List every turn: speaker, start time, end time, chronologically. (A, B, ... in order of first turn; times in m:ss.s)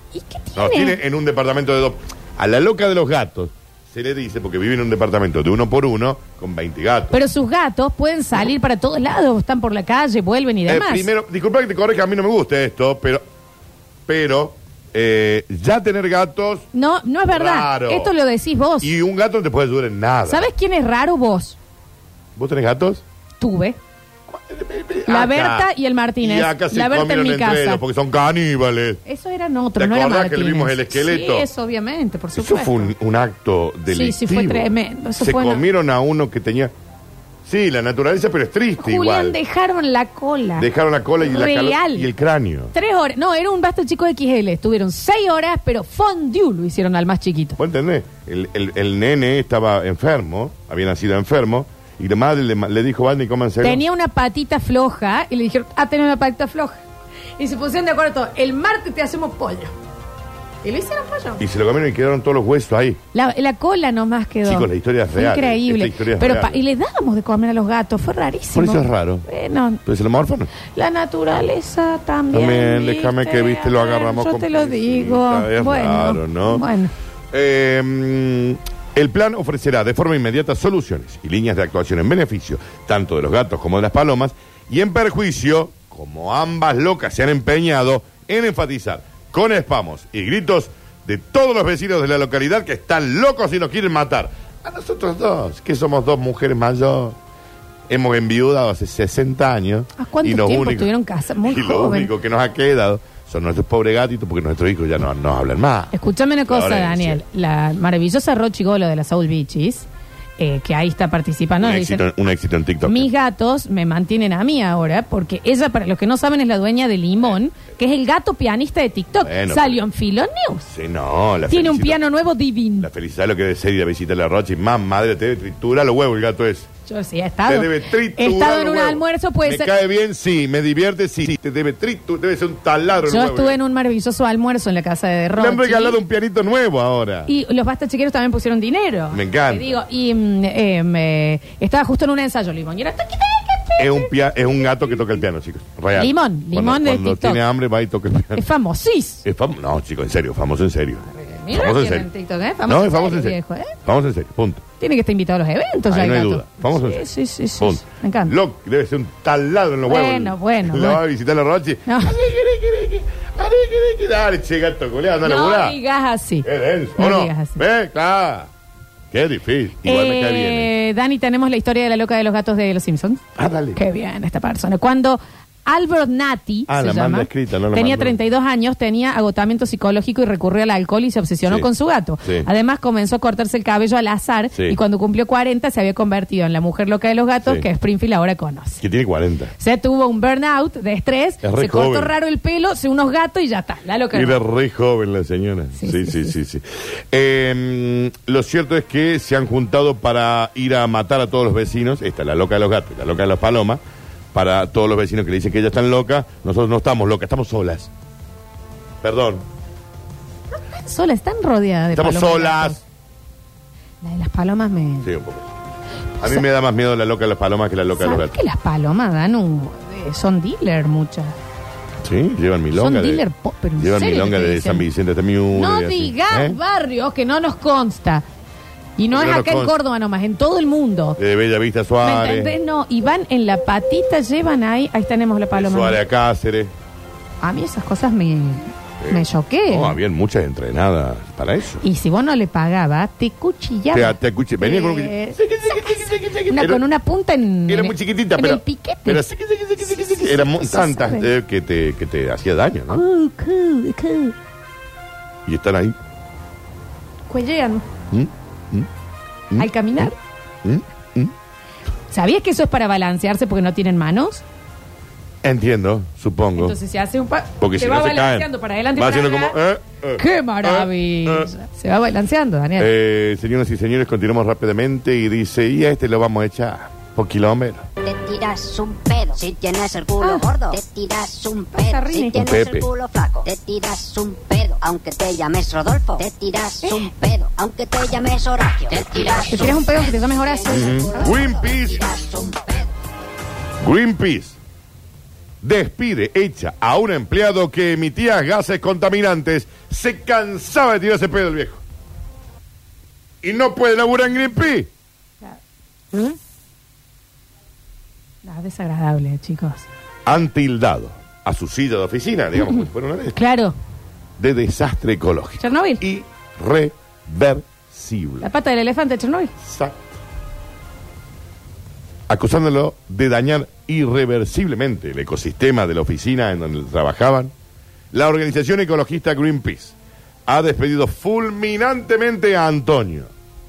0:00.1-0:01.0 A
0:00.6-0:07.2 B
0:07.1-0:11.1 A
0:10.6-0:13.2 B
0:14.0-0:16.6 B
0:16.7-0:18.9 A
0:17.3-0:18.1 B
0:18.8-0:20.5 B
0:20.3-0:21.6 A
0:22.4-0:23.0 B
0:23.4-0:23.8 A
0:24.3-0:25.7 B
0:25.1-0:27.8 A
0:26.2-0:29.0 B
0:29.0-0:32.9 A
0:29.8-0:31.5 B
0:32.4-0:36.7 B
0:33.9-0:35.6 A
0:37.4-0:39.4 B
0:38.8-0:40.7 A
0:40.6-0:42.7 B
0:41.2-0:42.1 A
0:42.7-0:47.6 A
0:47.6-0:53.8 B
0:53.6-0:56.8 A
0:57.4-0:59.7 A
1:00.6-1:01.4 A
1:01.4-1:03.0 B
1:03.1-1:09.8 A
1:04.4-1:06.6 B
1:08.5-1:09.3 B
1:09.8-1:10.5 B
1:10.6-1:16.9 A
1:12.3-1:16.6 B
1:17.3-1:37.2 B
1:37.9-1:40.9 B
1:40.0-1:42.1 A
1:41.4-1:45.9 B
1:45.9-1:49.9 A
1:46.4-1:47.2 B
1:50.4-1:52.0 A
1:51.6-1:53.1 B
1:52.8-2:00.7 A
1:59.2-1:59.8 B
2:00.7-2:02.0 B
2:01.5-2:02.9 A
2:02.8-2:06.7 B
2:06.9-2:09.7 A
2:07.5-2:13.6 B
2:13.0-2:16.0 A
2:15.3-2:17.3 B
2:17.3-2:24.1 A
2:19.1-2:19.7 B
2:23.8-2:28.4 B
2:25.9-2:27.4 A
2:28.3-2:29.2 A
2:29.2-2:32.1 B
2:31.1-2:33.8 A
2:32.6-2:34.6 B
2:34.8-2:38.3 A
2:35.9-2:37.0 B
2:37.6-2:45.8 B
2:39.9-2:41.0 A
2:41.8-2:42.1 A
2:45.2-2:47.6 A
2:46.4-2:48.5 B
2:49.1-2:50.7 B
2:49.8-2:53.2 A
2:53.4-2:53.8 B
2:53.7-3:08.8 A
2:56.7-2:58.2 B
3:04.5-3:04.8 B
3:08.8-3:09.5 B
3:09.6-3:14.4 A
3:11.4-3:12.1 B
3:14.1-3:23.8 B
3:15.8-3:16.3 A
3:24.3-3:27.9 B
3:29.0-3:29.4 B
3:30.5-3:32.8 A
3:31.9-3:32.8 B
3:34.0-3:35.1 A
3:35.0-3:35.5 B
3:36.2-3:38.4 B
3:38.0-3:41.4 A
3:42.0-3:43.2 B
3:42.7-3:44.9 A
3:43.8-3:46.6 B
3:45.5-3:48.2 A
3:49.0-3:51.2 A
3:49.1-3:49.8 B
3:51.2-3:52.6 B
3:52.0-3:56.0 A
3:55.5-3:56.7 B
3:57.4-4:00.0 A
3:59.0-4:01.8 B
4:01.8-4:09.2 A
4:03.9-4:06.8 B
4:07.7-4:13.0 B
4:09.9-4:11.3 A
4:12.9-4:14.3 A
4:15.4-4:16.0 B
4:17.3-4:17.8 A
4:18.1-4:18.9 B
4:19.5-4:20.1 B
4:19.5-4:20.2 A
4:20.6-4:21.3 B
4:22.1-4:24.4 A
4:25.4-4:26.8 B
4:26.6-4:29.6 A
4:27.6-4:31.5 B
4:30.2-4:32.9 A
4:32.8-4:37.8 B
4:38.0-4:52.9 C
4:40.2-4:40.5 A
4:41.7-4:42.4 A
4:42.3-4:42.9 B
4:46.8-4:47.1 A
4:48.9-4:49.7 B
4:49.4-4:51.4 A
4:50.7-4:52.0 B
4:53.8-4:54.6 B
4:55.6-5:01.8 B
5:03.4-5:04.9 B
5:08.4-5:09.9 A
5:10.2-5:13.4 B
5:12.6-5:13.8 A
5:14.4-5:18.5 B
5:15.6-5:16.0 A
5:18.4-5:19.5 A
5:19.6-5:20.2 B
5:22.3-5:27.5 B
5:28.1-5:33.3 B